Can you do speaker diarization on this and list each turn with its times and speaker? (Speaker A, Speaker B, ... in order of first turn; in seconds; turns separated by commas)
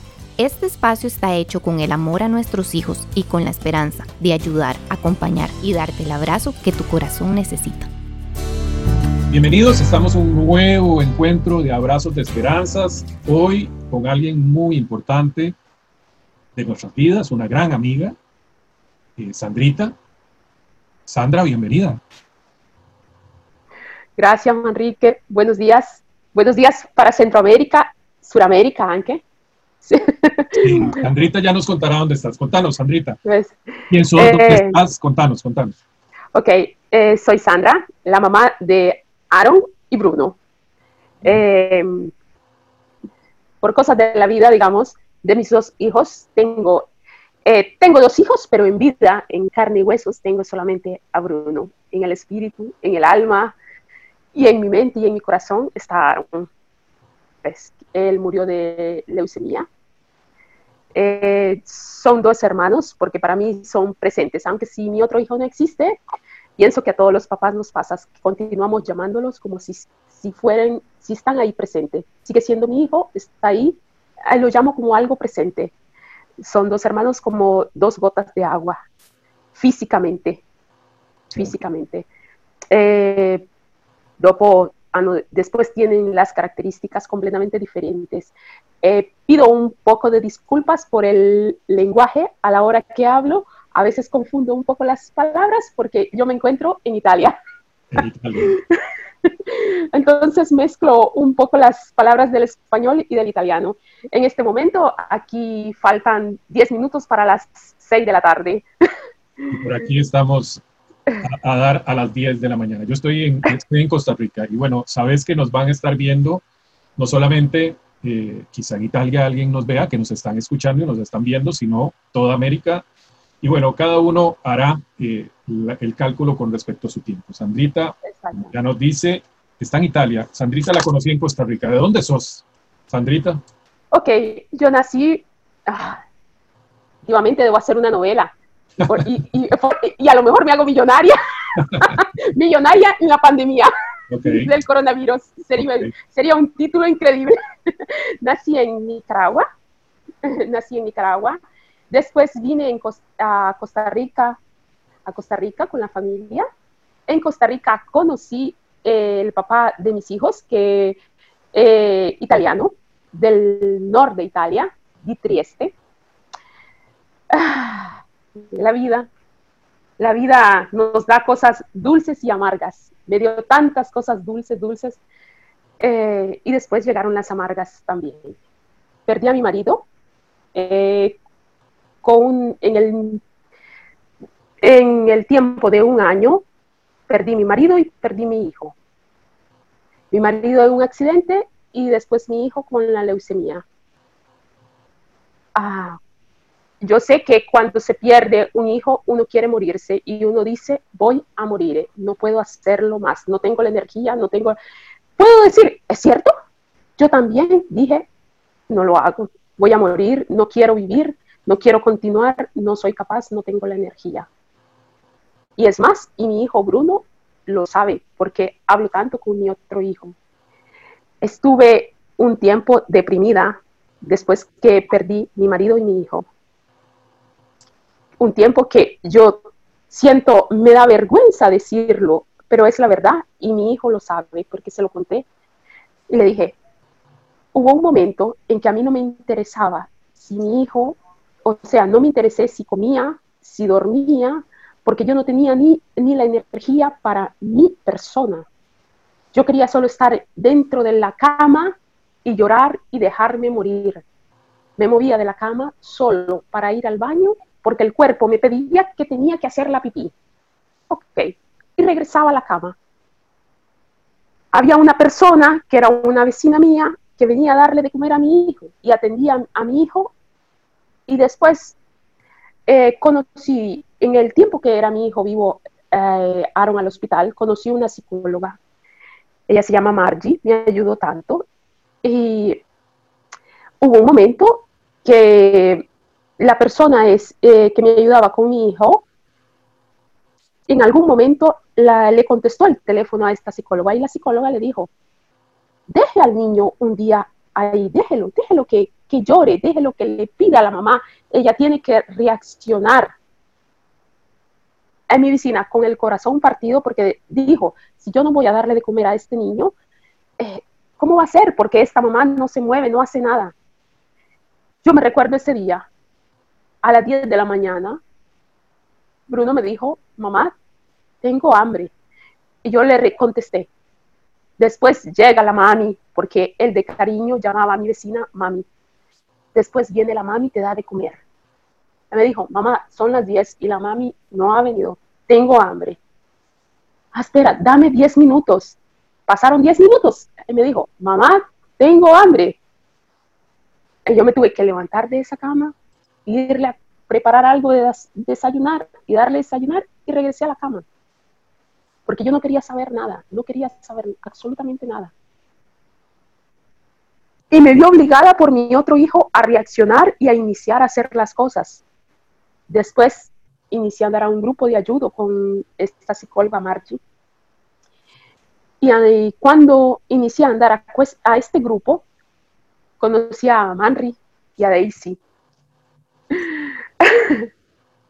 Speaker A: 0.4-7.9, Speaker B: 9.3-15.5, Speaker B: 16.5-18.1, Speaker B: 19.2-19.9, Speaker B: 21.1-22.0, Speaker C: 24.2-29.2, Speaker C: 29.8-31.0, Speaker B: 30.6-33.2, Speaker C: 33.2-34.8, Speaker B: 33.9-35.8, Speaker C: 36.3-40.4, Speaker C: 41.2-42.1, Speaker C: 43.6-46.9, Speaker C: 47.4-53.5, Speaker C: 54.3-56.5, Speaker C: 57.4-59.7, Speaker C: 60.9-66.0, Speaker C: 66.6-75.7, Speaker C: 76.4-78.8, Speaker C: 79.5-80.4, Speaker C: 81.3-82.1, Speaker C: 82.7-83.5, Speaker C: 84.2-97.3, Speaker B: 97.9-98.5, Speaker C: 99.2-108.6, Speaker B: 109.5-110.6, Speaker B: 111.2-116.4, Speaker B: 117.0-122.8, Speaker B: 123.4-133.4, Speaker C: 128.0-128.5, Speaker C: 133.9-136.0, Speaker C: 137.1-141.2, Speaker C: 141.7-143.7, Speaker B: 144.1-144.5, Speaker C: 144.2-149.4, Speaker B: 145.6-145.9, Speaker C: 150.2-151.4, Speaker C: 151.9-154.4, Speaker C: 155.1-156.4, Speaker C: 157.1-161.0, Speaker C: 161.5-165.8, Speaker C: 167.3-169.1, Speaker C: 170.0-175.0, Speaker C: 175.8-178.4, Speaker C: 179.1-179.9, Speaker C: 180.5-181.2, Speaker C: 182.0-183.2, Speaker C: 184.6-186.4, Speaker C: 187.1-188.8, Speaker C: 190.1-193.6, Speaker C: 195.5-196.0, Speaker C: 196.8-204.6, Speaker C: 205.2-206.3, Speaker C: 207.0-208.1, Speaker C: 208.7-214.3, Speaker C: 215.6-220.2, Speaker C: 221.2-226.3, Speaker C: 228.2-229.4, Speaker C: 229.9-235.3, Speaker C: 236.1-236.6, Speaker C: 237.5-248.5, Speaker C: 249.3-254.0, Speaker C: 254.8-260.1, Speaker C: 260.9-262.8, Speaker C: 264.5-270.1, Speaker C: 271.1-271.8, Speaker C: 272.7-278.6, Speaker C: 279.5-281.4, Speaker C: 282.0-282.6, Speaker C: 283.8-285.9, Speaker C: 286.4-289.1, Speaker C: 290.7-294.9, Speaker C: 295.9-303.1, Speaker C: 305.1-309.7, Speaker C: 310.4-313.5, Speaker C: 314.8-315.9, Speaker C: 316.8-318.0, Speaker C: 319.3-320.5, Speaker C: 321.2-321.9, Speaker C: 322.6-323.7, Speaker C: 324.6-328.6, Speaker C: 329.5-331.2, Speaker C: 332.1-336.0, Speaker C: 337.1-342.6, Speaker C: 344.1-345.7, Speaker C: 346.2-350.8, Speaker C: 352.1-355.1, Speaker C: 357.5-361.8, Speaker C: 362.7-367.0, Speaker C: 368.8-372.0, Speaker C: 373.0-375.2, Speaker C: 376.3-377.5